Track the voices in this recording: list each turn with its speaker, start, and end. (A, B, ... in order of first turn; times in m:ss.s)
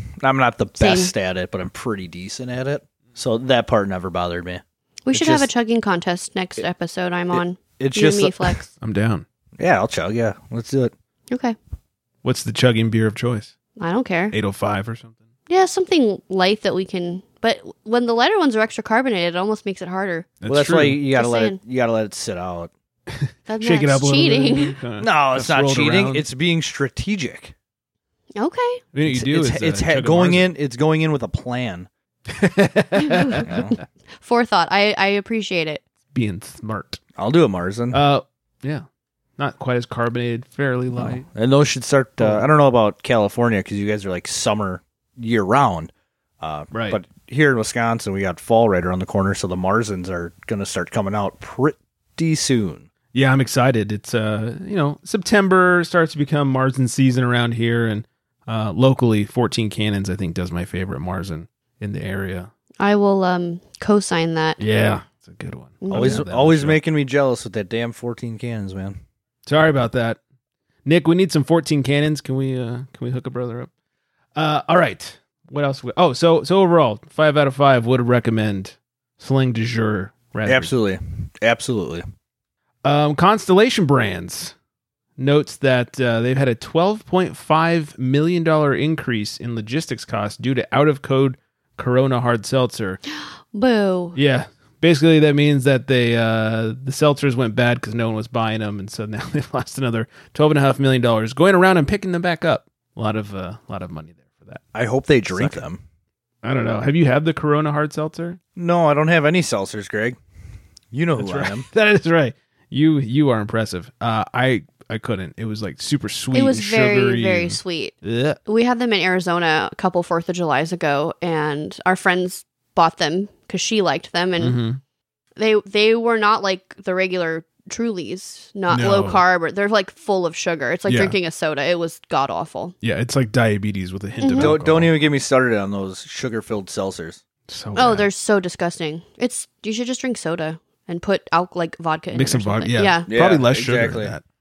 0:00.2-0:04.6 A
0:00.8-0:01.1 B
0:05.0-0:08.7 B
0:05.1-0:05.5 A
0:07.3-0:08.6 A
0:08.8-0:09.2 C
0:09.6-0:10.9 A
0:11.3-0:11.6 B
0:12.2-0:13.5 C
0:13.8-0:14.3 B
0:14.3-0:15.2 C
0:15.5-0:20.3 B
0:20.4-0:21.0 C
0:20.5-0:22.7 A
0:21.1-0:21.6 B
0:23.1-0:26.2 C
0:23.5-0:24.7 B
0:25.0-0:27.5 A
0:28.4-0:28.8 B
0:28.9-0:30.5 C
0:29.1-0:31.9 A
0:32.3-0:33.6 C
0:33.0-0:33.4 B
0:33.4-0:33.8 A
0:34.2-0:35.8 B
0:36.1-0:37.0 C
0:37.2-0:38.0 A
0:37.9-0:38.8 C
0:39.4-0:41.2 C
0:40.9-0:52.9 A
0:42.2-0:42.4 C
0:46.7-0:47.0 C
0:53.1-1:02.5 C
1:02.8-1:04.6 B
1:04.6-1:06.8 C
1:05.8-1:06.2 B
1:05.9-1:09.0 A
1:09.4-1:10.2 C
1:10.8-1:13.7 C
1:14.3-1:20.7 C
1:20.4-1:22.0 A
1:22.8-1:24.5 C
1:25.2-1:33.0 C
1:33.1-1:34.2 B
1:34.1-1:44.6 C
1:44.7-1:45.8 A
1:45.3-1:45.6 C
1:46.4-1:48.4 C
1:48.6-1:50.2 A
1:50.9-1:51.7 A
1:51.2-1:58.4 C
1:56.3-1:57.9 B
1:58.4-2:04.6 B
2:04.4-2:04.8 C
2:05.4-2:12.8 B
2:08.7-2:09.2 C
2:10.9-2:11.2 C
2:12.8-2:14.9 C
2:14.2-2:14.5 B
2:14.3-2:17.2 A
2:17.5-2:18.1 C
2:17.7-2:23.1 B
2:22.1-2:24.2 C
2:23.1-2:24.2 A